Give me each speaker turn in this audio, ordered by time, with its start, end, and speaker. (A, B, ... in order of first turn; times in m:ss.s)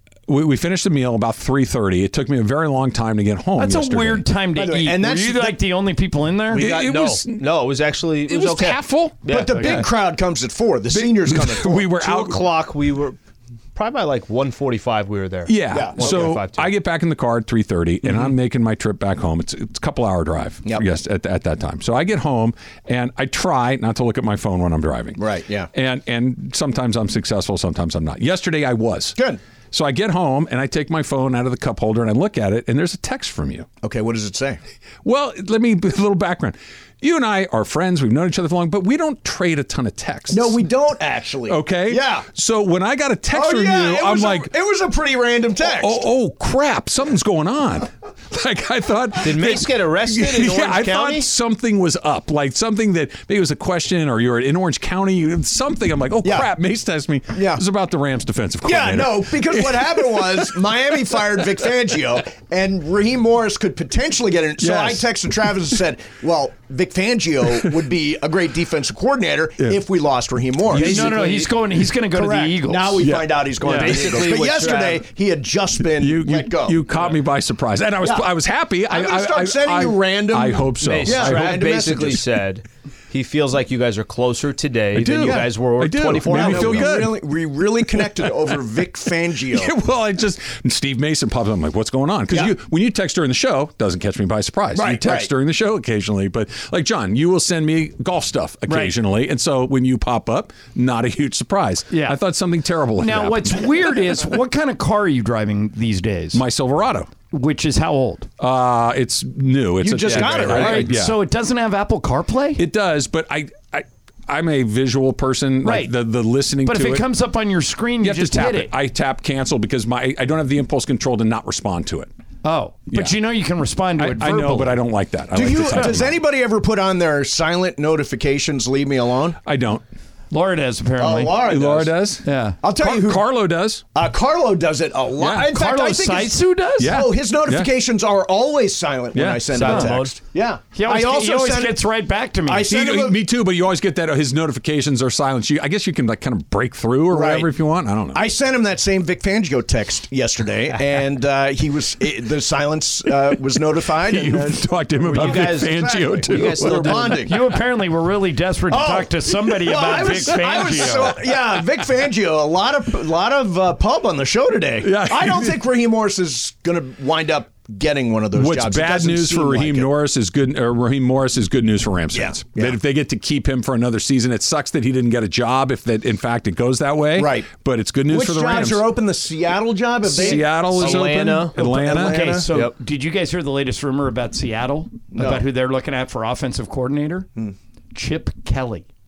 0:00.3-0:04.2 A
0:03.6-0:06.6 B
0:04.6-0:05.6 C
0:06.5-0:07.4 A
0:06.6-0:09.9 D
0:08.3-0:09.9 A
0:09.3-0:12.1 C
0:10.9-0:12.4 A
0:12.0-0:13.2 D
0:13.8-0:16.7 D
0:15.5-0:25.2 A
0:15.7-0:16.4 C
0:25.2-0:25.7 C
0:25.7-0:29.2 A
0:29.7-0:33.7 A
0:33.8-0:34.6 C
0:35.0-0:40.6 A
0:40.3-0:42.3 C
0:41.5-0:44.5 A
0:43.3-0:46.0 C
0:45.6-1:00.3 A
0:49.2-0:51.3 D
0:56.2-0:56.5 C
0:57.3-0:57.6 C
0:58.6-1:11.2 C
1:04.6-1:05.1 A
1:10.7-1:11.6 D
1:10.7-1:13.1 B
1:12.1-1:17.1 C
1:13.0-1:14.2 A
1:13.6-1:15.1 D
1:15.9-1:21.6 A
1:18.0-1:18.3 C
1:18.9-1:22.3 C
1:20.8-1:27.1 D
1:24.9-1:27.3 A
1:25.2-1:25.5 C
1:26.3-1:29.8 C
1:27.9-1:28.3 A
1:29.5-1:43.6 A
1:32.3-1:32.6 C
1:34.7-1:35.3 C
1:38.7-1:38.9 B
1:41.9-1:42.2 B
1:43.0-1:46.4 B
1:46.3-1:47.1 A
1:47.3-1:48.3 B
1:48.4-1:51.2 A
1:49.8-1:51.0 C
1:50.1-1:50.6 D
1:50.2-1:52.6 B
1:52.6-1:57.0 A
1:55.6-1:55.9 B
1:56.6-1:58.7 B
1:58.0-2:02.1 A
2:02.4-2:04.8 B
2:04.0-2:06.2 A
2:05.3-2:09.4 C
2:05.4-2:05.9 B
2:09.4-2:09.8 A
2:10.3-2:11.4 B
2:11.0-2:12.0 C
2:11.4-2:13.8 A
2:12.2-2:12.6 B
2:12.6-2:13.3 C
2:13.9-2:21.8 C
2:15.2-2:15.5 A
2:15.5-2:17.0 B
2:16.8-2:17.7 A
2:19.1-2:19.9 A
2:19.5-2:20.2 D
2:19.6-2:19.9 B
2:20.7-2:22.7 B
2:22.5-2:23.2 C
2:22.7-2:28.2 A
2:27.1-2:27.5 C
2:28.1-2:37.4 C
2:34.0-2:37.5 A
2:35.0-2:37.3 D
2:37.2-2:41.2 B
2:38.7-2:49.9 C
2:39.8-2:41.2 A
2:44.8-2:45.6 A
2:48.3-2:58.9 A
2:52.1-2:52.8 C
2:57.2-2:57.5 C
2:58.1-3:02.5 C
3:00.0-3:02.4 A
3:00.2-3:01.6 D
3:02.0-3:07.3 B
3:05.1-3:05.5 C
3:07.9-3:08.9 B